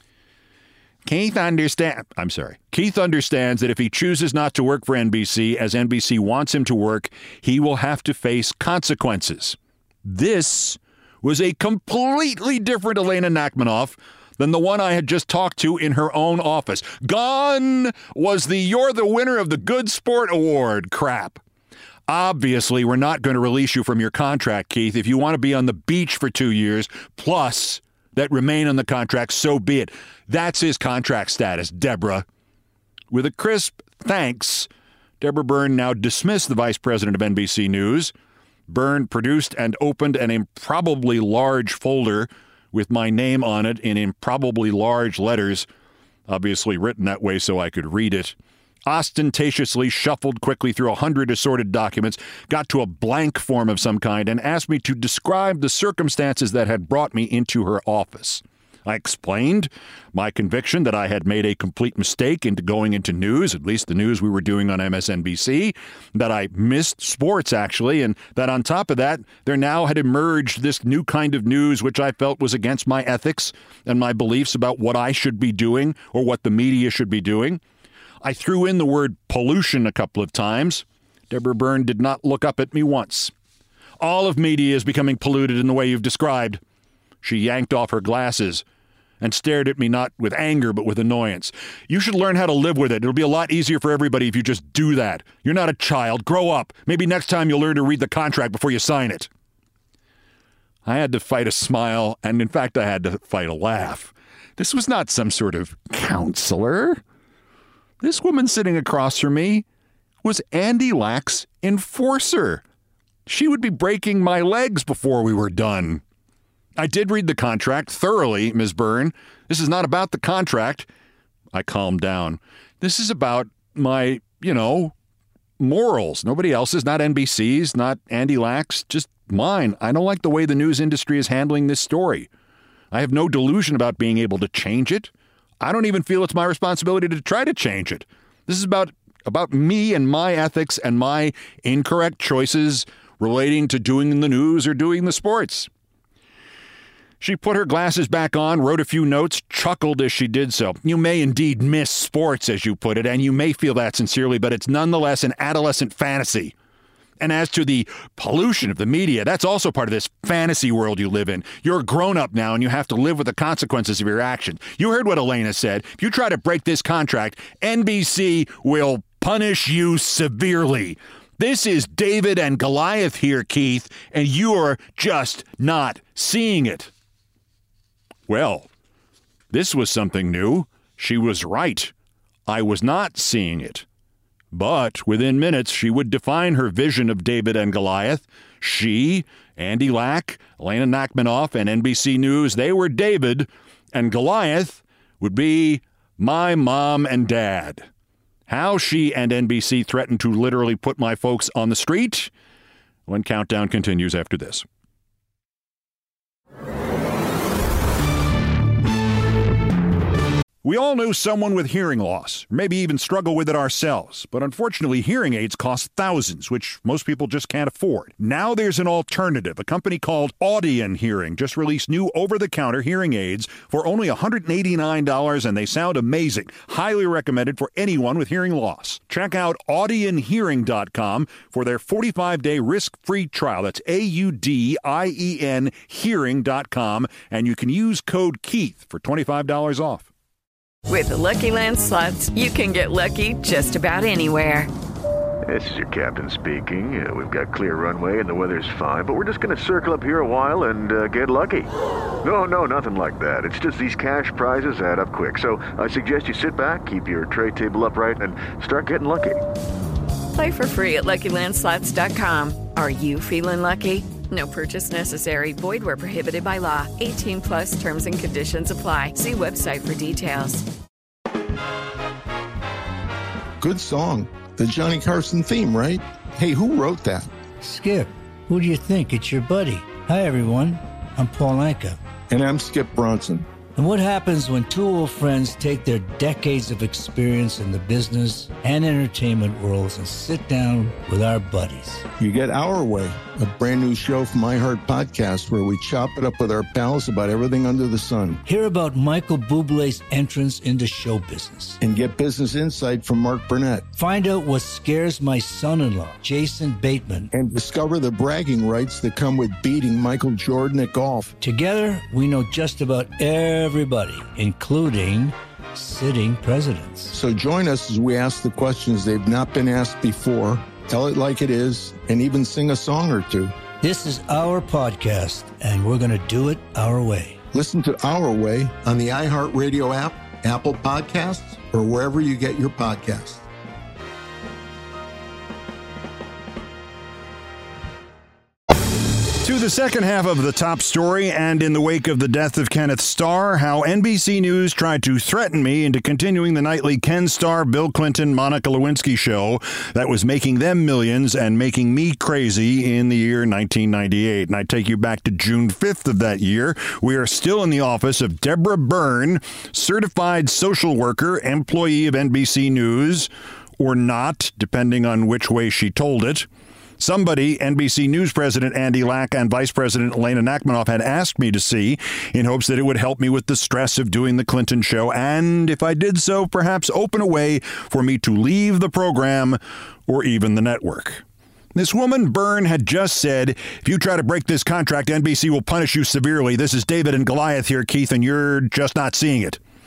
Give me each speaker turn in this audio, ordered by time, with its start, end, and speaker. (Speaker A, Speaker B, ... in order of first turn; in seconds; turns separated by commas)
Speaker A: 1.1-21.4, Speaker A: 22.1-32.3, Speaker A: 33.1-34.7, Speaker A: 35.2-38.1, Speaker A: 38.7-45.7, Speaker A: 46.3-77.6, Speaker A: 78.2-83.3, Speaker A: 84.0-86.6, Speaker A: 87.2-88.7, Speaker A: 89.2-99.3, Speaker A: 100.9-107.0, Speaker A: 108.0-109.7, Speaker A: 110.2-112.6, Speaker A: 113.3-116.0, Speaker A: 116.8-120.9, Speaker A: 121.5-124.9, Speaker A: 125.6-132.3, Speaker A: 132.9-135.1, Speaker A: 135.6-145.7, Speaker A: 147.2-156.5, Speaker A: 157.2-176.9, Speaker A: 178.3-178.7, Speaker A: 179.5-181.9, Speaker A: 182.5-183.9, Speaker A: 184.5-197.9, Speaker A: 198.5-202.3, Speaker A: 203.1-204.7, Speaker A: 210.6-240.1, Speaker B: 240.9-244.7, Speaker C: 245.5-251.7, Speaker C: 252.2-259.4, Speaker B: 260.3-270.7, Speaker D: 273.6-277.3, Speaker E: 277.6-282.0, Speaker D: 282.3-283.5, Speaker E: 283.8-292.1, Speaker D: 292.2-298.4, Speaker E: 298.5-301.8, Speaker D: 301.8-303.9, Speaker E: 303.9-307.3, Speaker D: 307.3-311.3, Speaker E: 311.4-317.1, Speaker D: 317.1-323.6, Speaker E: 323.8-327.4, Speaker D: 327.5-333.4, Speaker A: 339.4-366.5, Speaker A: 367.0-381.2, Speaker A: 381.8-389.6